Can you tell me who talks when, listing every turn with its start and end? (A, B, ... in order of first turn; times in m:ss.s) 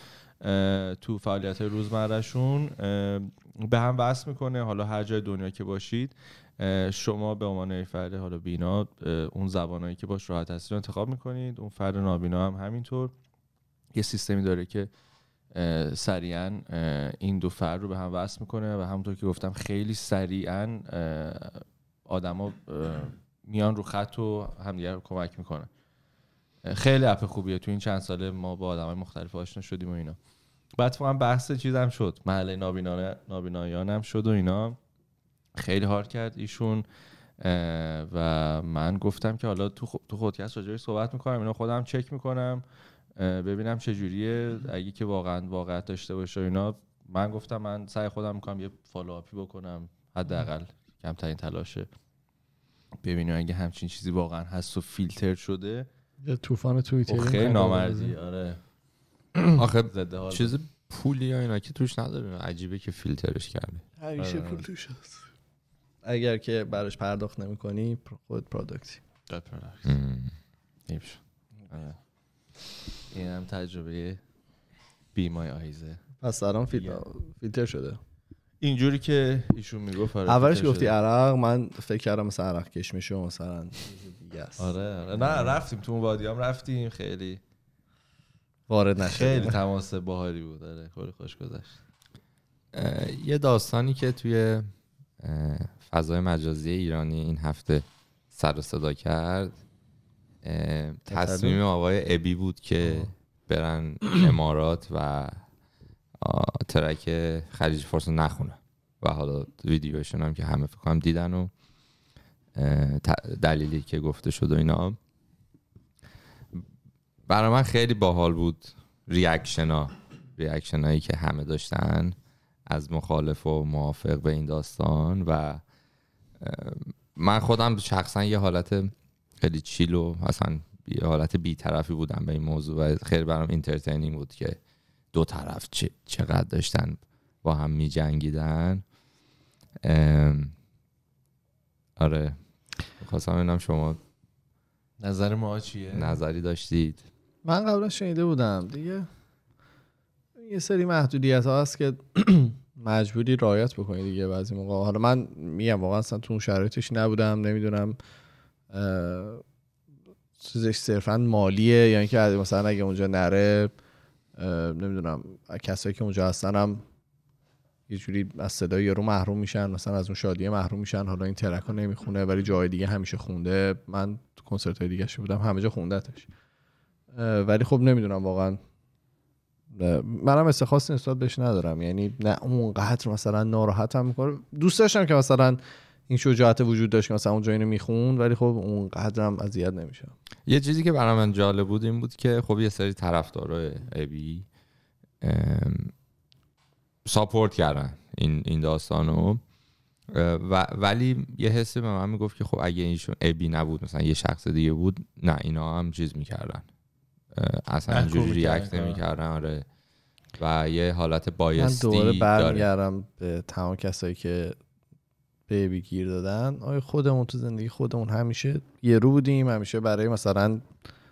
0:00.4-0:13.1 A
0:13.9-0:14.9 A
0:15.5-0:25.7 A
0:26.6-0:30.2 A
0:30.8-0:34.8 A
0:35.6-0:36.9 A
0:37.4-0:42.6 A
0:43.2-0:51.9 A
0:53.0-0:55.9 A
0:56.2-0:58.1 B
0:57.1-0:58.6 A
0:59.5-1:03.8 C
0:59.8-1:00.6 A
1:04.0-1:05.2 B
1:04.2-1:04.7 A
1:06.0-1:09.0 B
1:09.3-1:10.0 A
1:09.8-1:10.3 C
1:10.9-1:12.0 A
1:13.1-1:14.2 A
1:15.1-1:16.0 A
1:16.2-1:18.0 B
1:16.7-1:17.0 A
1:18.6-1:21.0 A
1:20.3-1:25.6 B
1:24.6-1:27.4 A
1:28.7-1:29.6 B
1:29.0-1:31.8 A
1:32.7-1:34.7 C
1:35.2-1:39.6 C
1:40.4-1:45.4 C
1:41.1-1:41.6 B
1:46.2-1:51.5 C
1:52.6-1:55.0 C
1:57.3-2:02.2 C
2:02.7-2:05.6 C
2:06.4-2:14.6 C
2:15.1-2:18.8 C
2:19.8-2:20.5 C
2:22.0-2:22.4 C
2:23.0-2:24.0 C
2:25.0-2:26.2 A
2:25.9-2:27.0 C
2:27.4-2:29.1 B
2:30.4-2:38.0 B
2:38.7-2:39.4 B
2:40.4-2:43.7 B
2:44.4-2:46.8 B
2:47.9-2:56.3 B
2:57.1-2:58.6 B
2:59.7-3:10.1 B
3:10.5-3:14.4 C
3:15.2-3:15.9 C
3:17.0-3:19.4 C
3:20.1-3:26.6 C
3:27.3-3:29.6 C
3:27.9-3:29.0 A
3:30.4-3:32.7 C
3:31.6-3:34.6 B
3:35.5-3:40.6 B